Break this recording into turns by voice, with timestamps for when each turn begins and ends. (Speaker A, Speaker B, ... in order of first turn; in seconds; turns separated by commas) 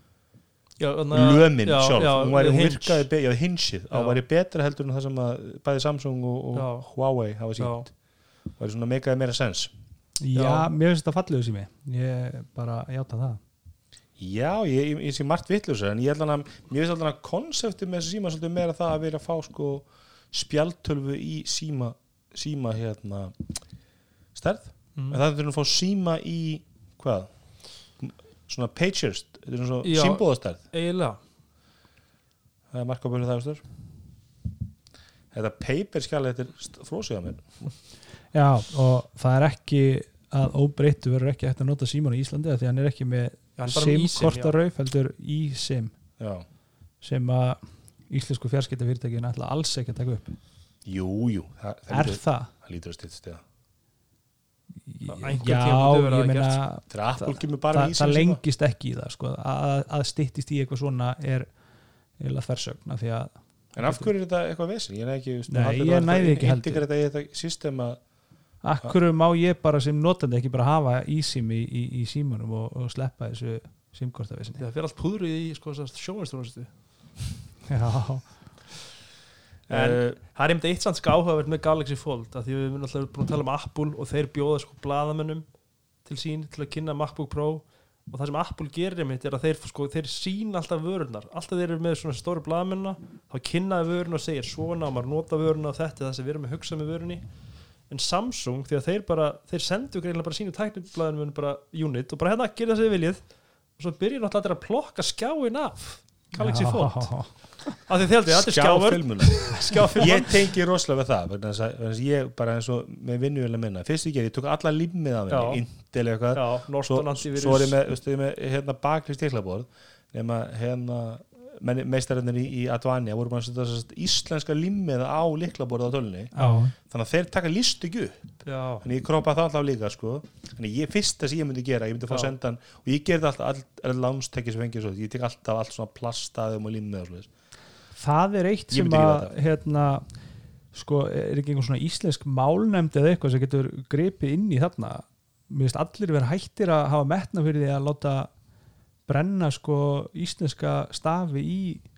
Speaker A: 0.8-3.1, Speaker B: 1.1-7.9, Speaker A: 3.9-4.2, Speaker A: 6.5-6.9, Speaker A: 7.6-7.9, Speaker B: 8.4-9.7, Speaker C: 10.2-13.4, Speaker A: 10.3-10.7, Speaker B: 14.2-23.4, Speaker B: 24.4-30.6, Speaker A: 24.9-25.2, Speaker A: 29.8-31.2, Speaker B: 32.7-33.6, Speaker B: 35.3-37.7, Speaker C: 38.3-46.0, Speaker A: 43.6-44.5, Speaker B: 46.2-46.5, Speaker C: 47.0-50.3, Speaker B: 50.8-53.4, Speaker C: 51.9-52.5, Speaker C: 54.9-64.1, Speaker A: 55.1-56.6, Speaker B: 56.9-58.4, Speaker B: 63.8-68.0, Speaker C: 65.5-66.8, Speaker C: 68.6-74.6, Speaker A: 74.6-76.8, Speaker C: 77.7-78.4, Speaker B: 79.7-80.2, Speaker A: 79.7-110.4, Speaker C: 106.4-107.3, Speaker B: 108.3-137.3, Speaker A: 115.3-117.8, Speaker C: 126.3-126.7, Speaker A: 128.4-128.8, Speaker C: 138.0-140.2, Speaker B: 138.7-139.3, Speaker C: 140.7-148.3, Speaker C: 149.1-151.8